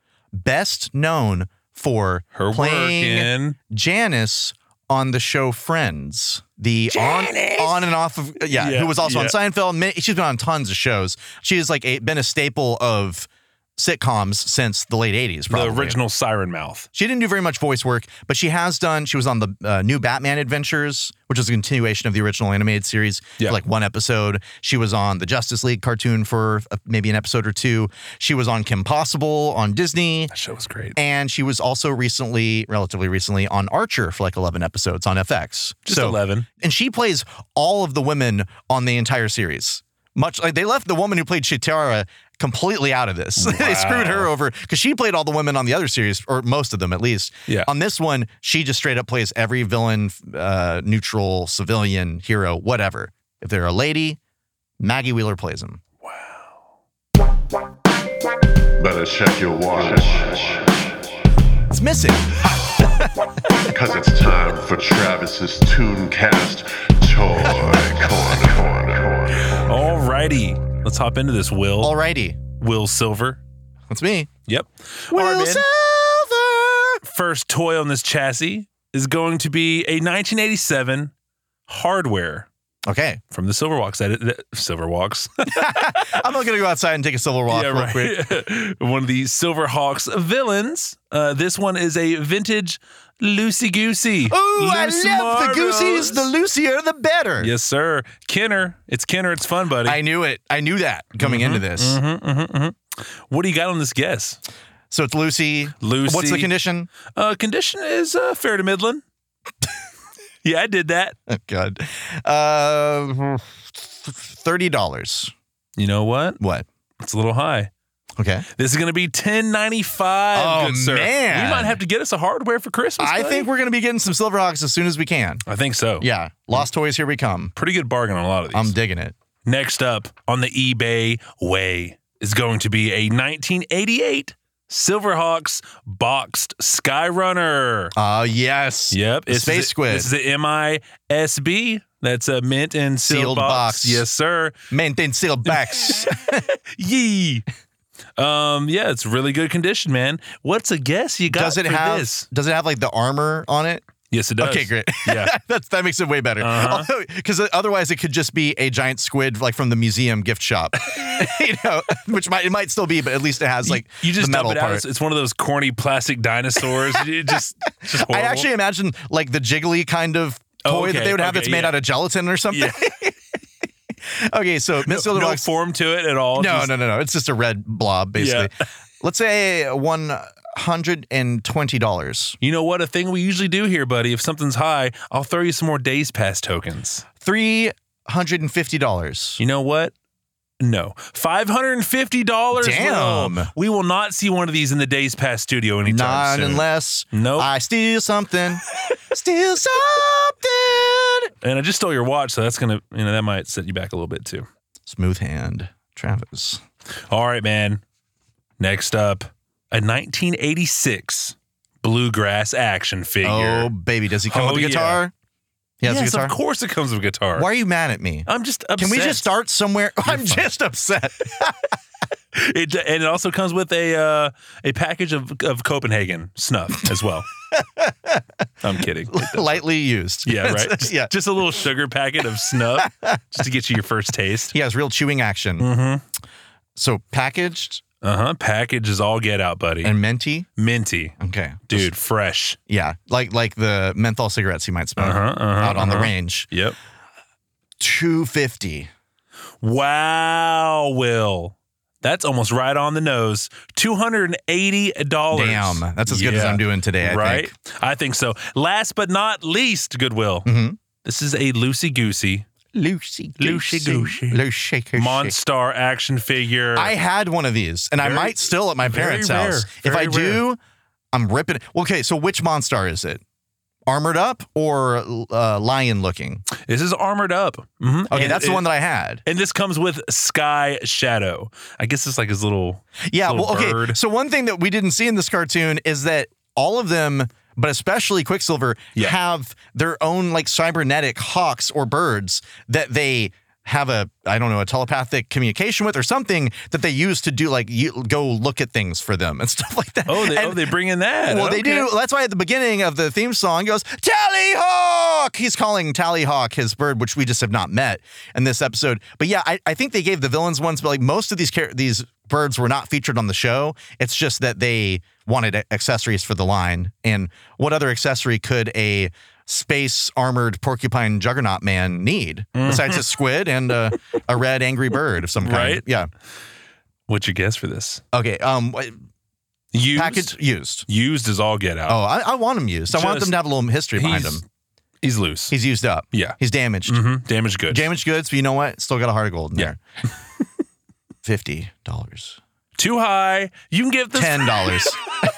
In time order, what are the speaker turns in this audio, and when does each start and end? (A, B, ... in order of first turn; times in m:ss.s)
0:00.3-0:16.0 A
0:02.3-0:03.6 B
0:06.9-0:07.9 B
0:08.5-0:09.4 B
0:15.5-0:16.9 B
0:16.9-0:30.3 A
0:30.3-0:31.0 B
0:30.9-0:54.2 A
0:35.8-0:36.5 B
0:43.4-0:44.3 B
0:54.8-0:55.8 A
0:56.0-0:56.6 B
0:58.8-1:00.9 C
1:01.7-1:03.3 A
1:03.7-1:09.6 C
1:09.6-1:11.9 B
1:11.8-1:12.4 A
1:12.6-1:13.4 B
1:13.9-1:14.3 A
1:14.5-1:15.6 B
1:15.1-1:17.0 A
1:17.0-1:21.1 B
1:21.7-1:22.5 B
1:22.8-1:23.2 A
1:23.3-1:26.1 B
1:25.5-1:28.2 A
1:27.5-1:36.2 B
1:34.3-1:37.5 A
1:37.4-1:40.0 B
1:39.8-1:42.0 A
1:41.2-1:44.4 B
1:44.9-1:46.9 A
1:45.8-1:46.5 B
1:47.1-1:49.0 B
1:50.4-1:51.2 B
1:51.3-1:55.3 A
1:55.8-1:56.4 B
1:56.4-1:56.6 A
1:57.0-1:57.7 B
1:58.2-1:58.4 A
1:58.6-2:03.5 B
2:00.3-2:01.8 A
2:03.0-2:05.4 A
2:05.5-2:06.1 B
2:06.0-2:07.5 A
2:07.6-2:08.7 B
2:08.5-2:09.1 A
2:09.4-2:17.9 B
2:18.0-2:20.1 A
2:18.9-2:24.6 B
2:23.0-2:24.0 A
2:24.7-2:26.4 A
2:26.7-2:27.4 B
2:28.2-2:32.3 B
2:31.3-2:44.8 A
2:34.1-2:35.3 B
2:36.4-2:36.9 B
2:43.6-2:48.5 B
2:47.9-2:53.2 A
2:50.6-2:51.8 B
2:54.0-2:55.5 A
2:54.8-2:56.8 B
2:56.3-3:02.4 A
2:58.2-2:58.5 B
3:02.4-3:07.0 B
3:07.2-3:09.4 A
3:09.4-3:09.9 B
3:10.6-3:17.5 B
3:12.5-3:13.5 A
3:15.8-3:21.3 A
3:21.4-3:24.5 B
3:24.9-3:26.6 A
3:27.1-3:27.8 B
3:28.6-3:33.7 B
3:33.2-3:35.1 A
3:34.3-3:35.0 B
3:35.8-3:36.4 A
3:35.8-3:37.5 B
3:37.3-3:41.6 A
3:38.3-3:39.3 B
3:40.0-3:40.5 B
3:42.3-3:47.3 B
3:47.5-3:48.2 A
3:48.6-3:49.6 B
3:49.1-3:51.1 A
3:50.2-3:54.5 B
3:52.8-3:53.2 A
3:54.5-3:55.7 A
3:55.6-3:56.0 B
3:56.8-3:57.8 A
3:58.0-3:59.9 B
3:59.8-4:00.5 A
4:00.6-4:01.2 B
4:01.2-4:01.9 A
4:01.7-4:02.6 B
4:02.7-4:06.5 A
4:05.0-4:06.8 B
4:07.8-4:08.9 A
4:09.6-4:20.5 B
4:15.3-4:17.5 A
4:20.4-4:20.8 A
4:21.0-4:22.4 B
4:22.7-4:25.4 A
4:23.4-4:24.4 B
4:25.0-4:26.9 B
4:26.7-4:30.6 A
4:28.0-4:30.4 B
4:31.1-4:33.2 A
4:33.9-4:36.4 A
4:36.5-4:38.7 B
4:38.1-4:39.2 A
4:39.2-4:44.0 B
4:43.1-5:26.1 A
5:00.1-5:01.9 B
5:22.6-5:23.1 B
5:25.4-5:25.9 B
5:27.1-5:28.0 B
5:28.1-5:29.0 A
5:29.7-5:30.4 B
5:29.9-5:30.8 A
5:30.9-5:32.0 B
5:31.9-5:34.4 A
5:32.9-5:33.4 B
5:34.0-5:34.4 B
5:35.0-5:35.6 B
5:35.5-5:37.1 A
5:36.1-5:37.9 B
5:37.7-5:39.8 A
5:41.2-5:42.4 A
5:42.8-5:44.9 B
5:44.1-5:45.0 A